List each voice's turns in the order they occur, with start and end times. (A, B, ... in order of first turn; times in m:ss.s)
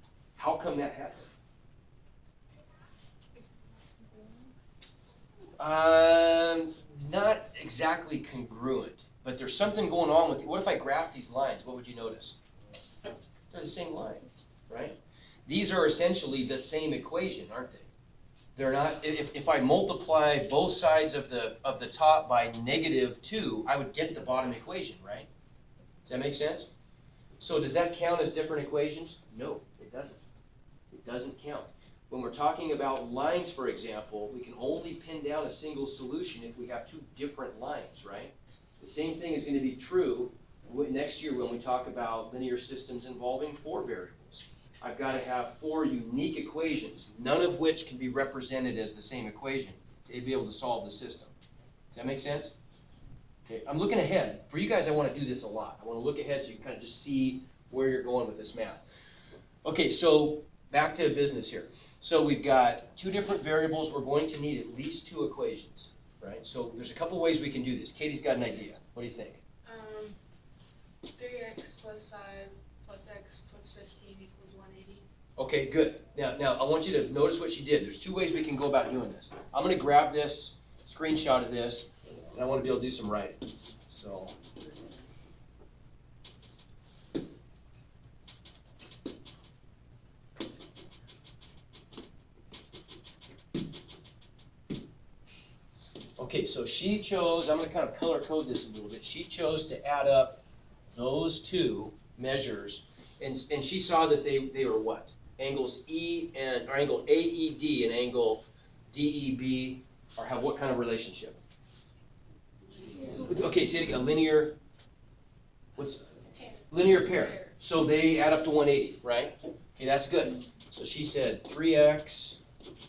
0:00.4-0:01.3 A
0:04.0-0:04.5 B
0:05.6-0:12.4 A
0:13.5-0:17.9 A
0:18.6-0:25.3 A
0:26.0-0:26.7 A
0:27.4-0:30.2 A
0:30.9-0:51.3 A
0:51.9-0:52.5 A
0:53.4-0:58.8 A
0:59.6-1:09.4 A
1:09.6-1:10.2 B
1:11.2-1:15.0 B
1:15.4-1:24.4 A
1:36.2-1:40.4 A
1:40.9-1:51.4 A
1:53.2-1:54.6 A
1:55.8-1:56.0 A
1:56.4-1:57.5 B
1:56.7-2:02.4 A